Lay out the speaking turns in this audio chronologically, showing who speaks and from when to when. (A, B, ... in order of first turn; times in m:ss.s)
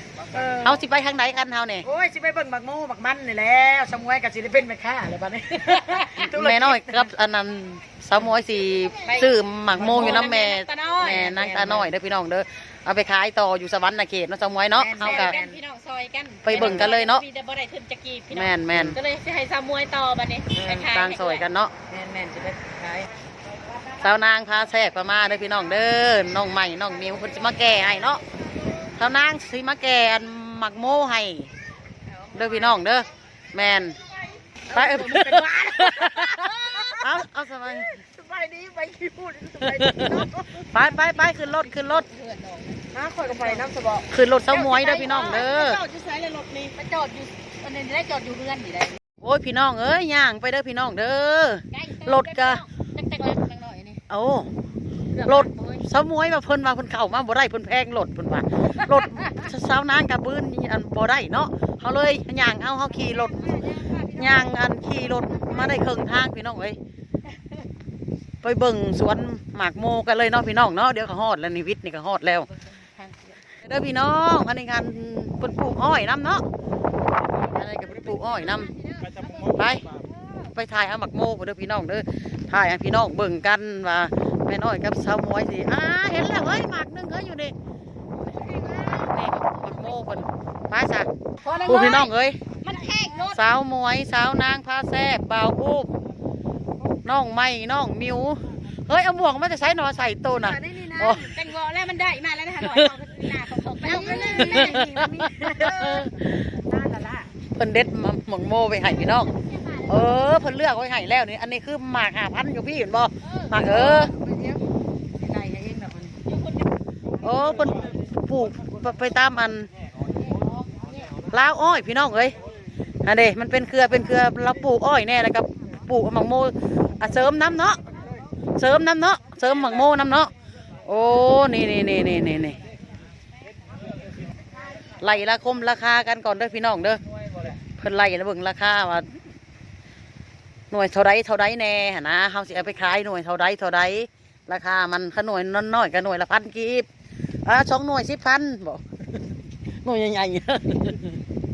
0:00.3-0:00.8 A
0:00.6-0:01.9 B
0:01.8-0:07.1 A
0:05.6-0:15.3 B
0:09.0-0:11.8 C
0:09.7-0:10.2 A
0:11.6-0:11.9 A
0:14.8-0:15.6 A
0:15.0-0:21.4 C
0:16.4-0:17.2 B
0:16.5-0:16.9 A
0:18.3-0:19.0 B
0:20.6-0:21.7 B
0:21.9-0:23.1 A
0:24.0-0:28.2 B
0:28.8-0:31.5 B
0:32.0-0:32.8 C
0:32.3-0:34.0 B
0:34.7-0:36.3 A
0:34.7-0:37.9 B
0:36.2-0:37.0 C
0:37.7-0:43.7 C
0:38.2-0:39.8 A
0:39.6-0:42.0 B
0:42.9-0:44.0 A
0:44.1-0:45.8 B
0:44.5-0:49.0 C
0:49.2-0:52.6 B
0:51.7-0:54.0 C
0:54.1-0:54.5 B
0:55.1-0:55.8 C
0:55.2-1:06.8 B
1:03.0-1:04.5 C
1:05.1-1:06.0 C
1:08.4-1:12.5 B
1:12.6-1:13.4 C
1:13.6-1:16.5 B
1:17.5-1:18.7 B
1:18.5-1:20.1 C
1:19.4-1:19.9 B
1:20.5-1:27.5 B
1:28.3-1:28.9 C
1:28.6-1:31.1 B
1:31.4-1:32.1 C
1:31.4-1:31.8 A
1:31.6-1:32.4 B
1:32.6-1:33.4 C
1:33.3-1:35.9 B
1:37.0-1:41.3 B
1:40.4-1:41.0 A
1:40.8-1:44.9 C
1:42.6-1:42.9 B
1:43.8-1:47.3 A
1:44.0-1:46.5 B
1:47.5-1:54.1 B
1:49.3-1:50.0 C
1:53.2-1:53.6 C
1:53.7-1:54.6 A
1:55.2-1:56.2 A
1:56.2-1:56.6 C
1:57.2-1:59.7 B
2:00.2-2:01.1 C
2:01.3-2:02.4 B
2:03.0-2:07.8 B
2:08.6-2:10.3 B
2:10.8-2:12.6 B
2:15.0-2:17.0 B
2:17.5-2:19.1 B
2:20.7-2:26.9 B
2:27.4-2:31.2 B